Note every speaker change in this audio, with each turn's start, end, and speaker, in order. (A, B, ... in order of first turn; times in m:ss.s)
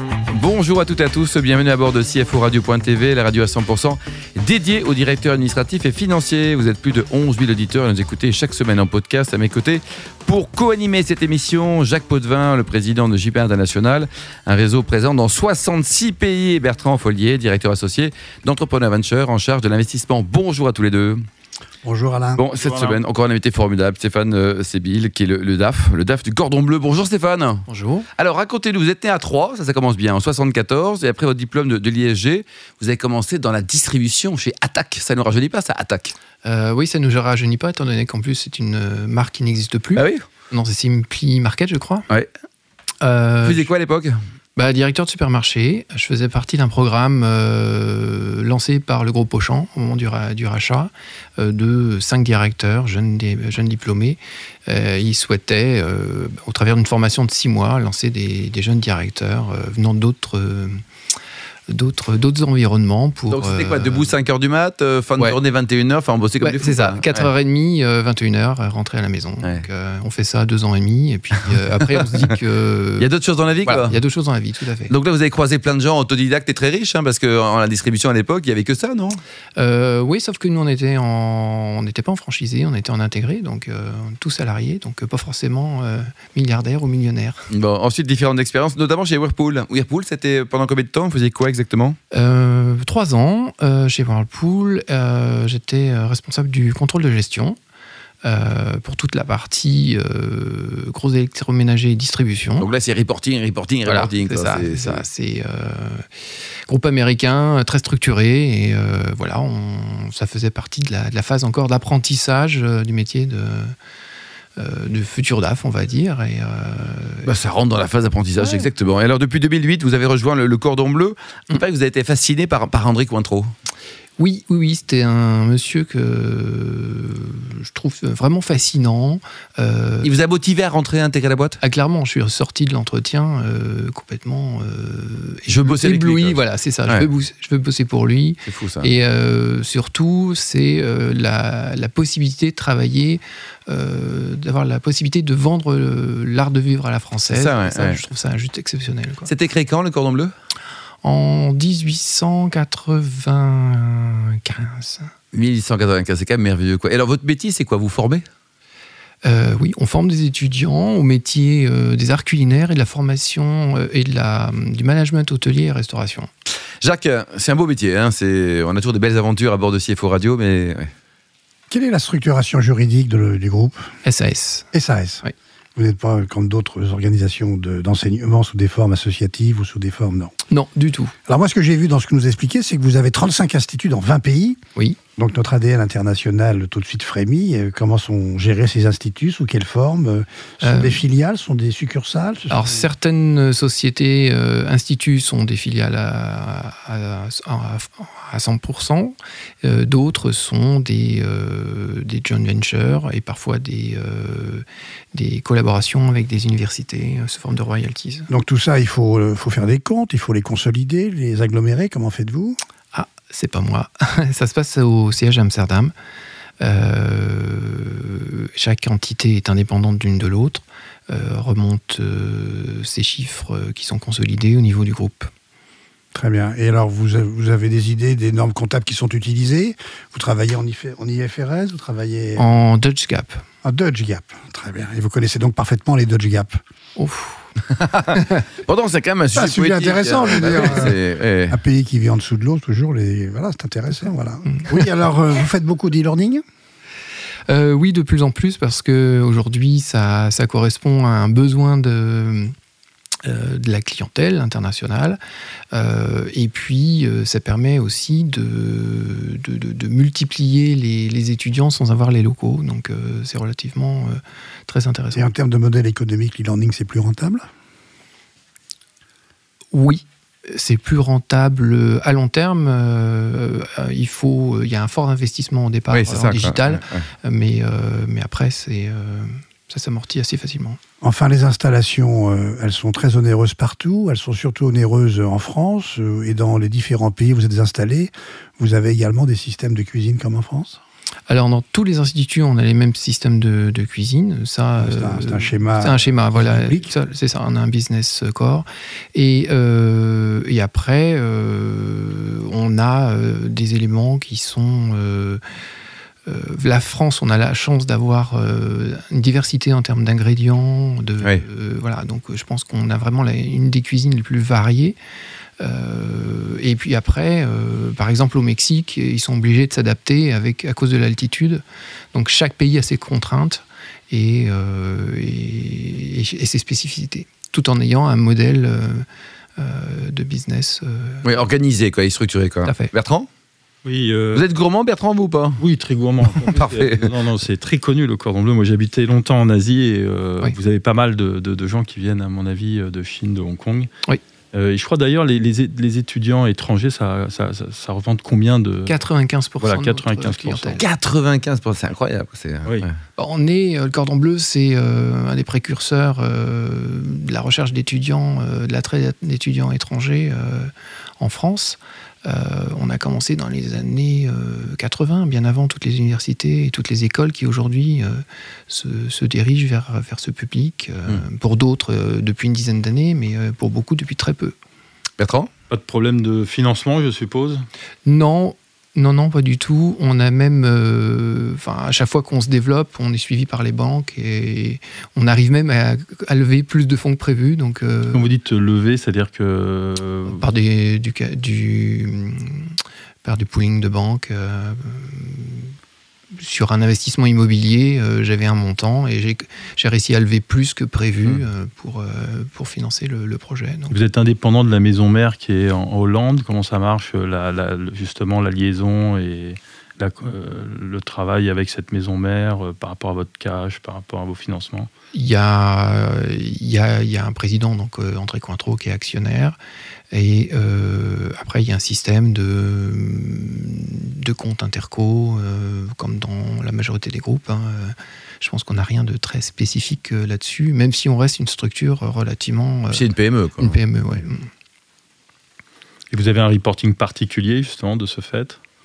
0:00.3-0:21.2 A
0:21.8-0:22.4 B
0:22.4-0:27.6 A
0:22.6-0:23.0 C
0:27.7-0:28.1 D
0:28.2-0:36.1 A
0:36.4-0:42.1 D
0:40.0-0:40.2 A
0:43.0-0:43.7 D
0:43.4-0:44.2 A
0:44.6-1:00.8 D
1:01.7-1:04.1 D
1:03.3-1:07.3 A
1:06.4-1:13.1 D
1:13.0-1:14.0 A
1:13.6-1:14.9 D
1:14.9-1:19.2 A
1:19.6-1:27.5 D
1:27.5-1:32.0 A
1:32.1-1:37.6 D
1:38.2-1:42.7 D
1:42.6-1:45.0 A
1:43.8-1:46.1 D
1:46.7-1:53.7 D
1:54.6-1:57.3 D
1:57.2-2:03.5 A
2:04.2-2:10.1 D
2:10.0-2:11.6 A
2:11.6-2:29.3 D
2:15.5-2:17.1 A
2:18.4-2:18.9 A
2:27.3-2:28.0 A
2:29.3-2:30.3 A
2:31.0-2:35.1 D
2:35.3-2:38.2 A
2:39.2-2:46.3 D
2:46.8-2:50.9 A
2:51.7-2:53.9 B
2:54.0-2:54.7 D
2:54.7-2:55.2 B
2:55.8-3:00.3 B
3:00.5-3:01.1 D
3:01.3-3:04.6 B
3:05.2-3:12.8 B
3:10.6-3:11.0 D
3:12.5-3:28.3 D
3:28.3-3:32.6 B
3:32.9-3:35.9 D
3:36.6-3:45.3 D
3:46.1-3:52.6 B
3:52.4-3:53.4 D
3:53.6-3:56.6 B
3:57.0-3:57.4 D
3:57.8-4:01.6 A
3:59.3-4:06.4 B
4:07.5-4:12.5 D
4:13.2-4:15.2 D
4:15.7-4:25.3 D
4:25.1-4:27.4 B
4:29.7-4:40.8 D
4:35.9-4:37.0 A
4:41.0-4:50.8 B
4:51.3-5:05.4 D
4:54.8-4:56.9 B
5:06.2-5:15.0 D
5:15.6-5:21.6 D
5:22.1-5:31.3 D
5:31.2-5:33.3 A
5:32.6-5:32.9 D
5:33.8-5:34.4 C
5:34.3-5:35.6 A
5:35.6-5:43.9 C
5:36.4-5:37.1 A
5:44.5-5:48.9 C
5:48.8-5:50.8 D
5:49.6-5:50.8 C
5:50.8-5:52.9 A
5:53.2-6:14.6 D
6:15.2-6:15.5 A
6:15.7-6:17.7 C
6:18.0-6:28.3 D
6:28.1-6:30.4 C
6:30.3-6:35.7 D
6:36.4-6:44.0 D
6:43.9-6:54.9 C
6:55.1-6:59.6 D
7:00.1-7:14.5 D
7:12.9-7:13.8 A
7:16.1-7:18.6 C